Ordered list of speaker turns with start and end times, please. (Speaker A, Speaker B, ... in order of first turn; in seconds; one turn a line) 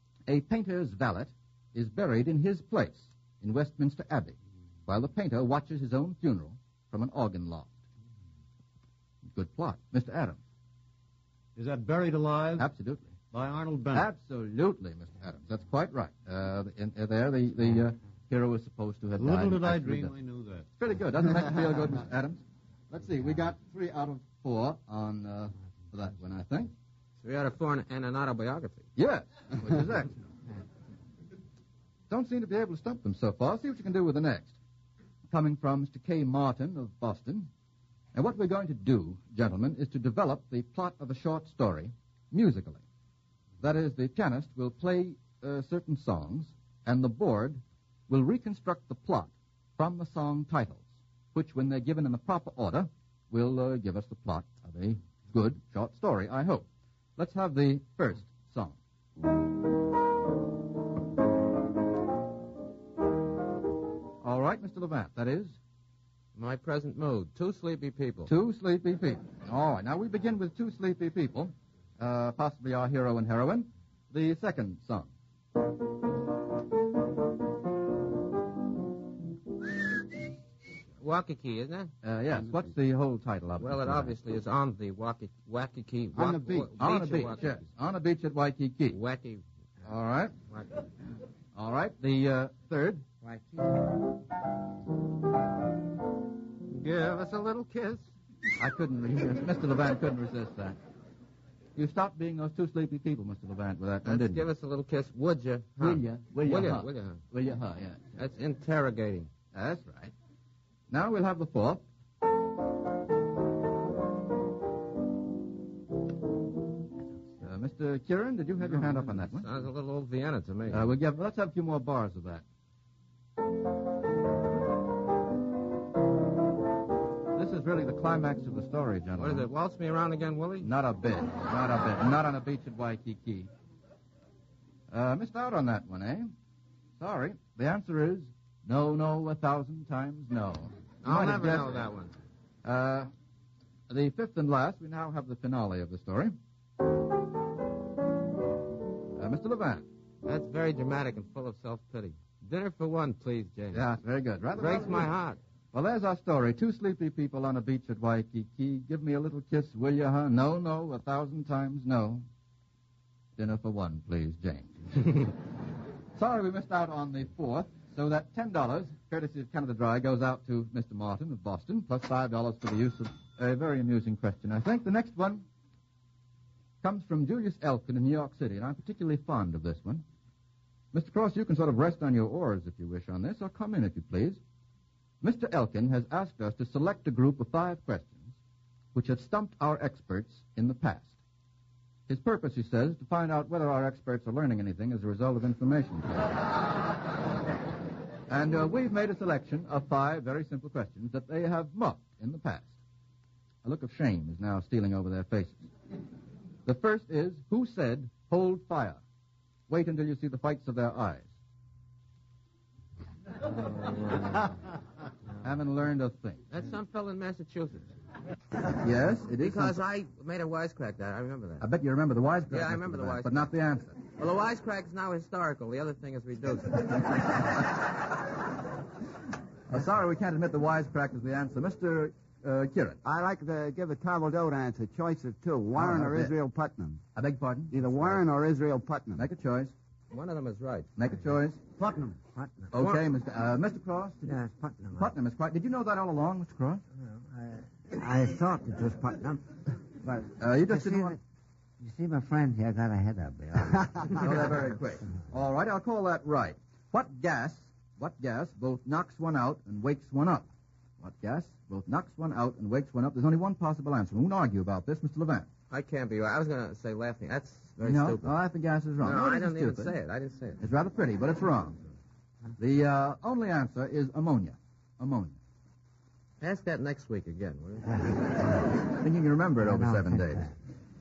Speaker A: 0.3-4.3
Speaker A: 4.9-7.7
Speaker A: 9.3-10.4
Speaker B: 11.6-12.7
Speaker A: 12.6-13.1
Speaker B: 13.3-14.1
Speaker A: 13.9-20.1
Speaker B: 19.2-20.7
Speaker A: 20.8-26.7
Speaker C: 27.2-28.9
Speaker A: 28.9-30.1
Speaker A: 32.1-34.5
Speaker A: 35.3-37.5
Speaker A: 38.1-42.8
Speaker A: 43.6-58.8
Speaker A: 64.2-65.6
Speaker C: 66.3-68.3
Speaker A: 68.2-75.1
Speaker C: 81.0-81.9
Speaker A: 82.0-84.1
Speaker C: 83.6-87.4
Speaker D: 86.2-86.7
Speaker A: 86.8-89.0
Speaker C: 88.9-89.4
Speaker A: 89.8-90.3
Speaker C: 90.5-90.8
Speaker A: 91.5-93.0
Speaker E: 93.2-93.8
Speaker C: 96.7-98.1
Speaker A: 98.6-100.8
Speaker A: 101.8-104.5
Speaker C: 104.0-107.2
Speaker A: 105.8-108.1
Speaker C: 108.2-109.3
Speaker A: 109.5-110.1
Speaker A: 110.9-111.8
Speaker A: 117.4-119.5
Speaker C: 119.4-120.9
Speaker A: 120.7-122.4
Speaker A: 127.3-129.5
Speaker C: 129.2-130.7
Speaker A: 130.6-133.5
Speaker A: 134.9-136.3
Speaker A: 137.0-141.9
Speaker C: 141.0-142.1
Speaker A: 142.6-143.1
Speaker A: 143.9-146.3
Speaker A: 149.2-149.9
Speaker C: 150.2-153.8
Speaker A: 153.7-155.1
Speaker C: 154.6-155.4
Speaker A: 155.7-162.2
Speaker A: 163.4-165.3
Speaker A: 166.1-175.4
Speaker A: 176.8-180.0
Speaker A: 180.9-184.4
Speaker A: 185.2-188.3
Speaker A: 188.9-191.1
Speaker A: 192.1-196.4
Speaker A: 198.3-202.7
Speaker A: 203.6-205.7
Speaker A: 206.6-209.0
Speaker A: 209.7-211.3
Speaker E: 213.8-214.2
Speaker A: 215.4-216.4
Speaker C: 216.5-217.9
Speaker A: 218.8-219.8
Speaker C: 219.4-221.6
Speaker A: 221.6-224.0
Speaker C: 222.5-223.5
Speaker C: 224.1-227.3
Speaker A: 229.7-233.0
Speaker D: 233.0-237.0
Speaker A: 235.7-236.3
Speaker A: 237.1-238.2
Speaker D: 237.7-239.2
Speaker A: 239.2-239.7
Speaker C: 240.1-240.9
Speaker A: 240.9-241.6
Speaker D: 241.8-242.2
Speaker E: 242.3-242.9
Speaker A: 242.7-244.3
Speaker E: 244.2-245.1
Speaker A: 244.9-246.8
Speaker E: 247.0-251.2
Speaker A: 250.4-251.2
Speaker E: 251.8-254.2
Speaker A: 254.2-265.5
Speaker C: 265.7-268.3
Speaker A: 267.8-269.9
Speaker C: 269.0-270.6
Speaker A: 270.6-271.8
Speaker A: 272.6-275.4
Speaker C: 276.4-278.2
Speaker A: 278.8-280.5
Speaker E: 279.6-280.5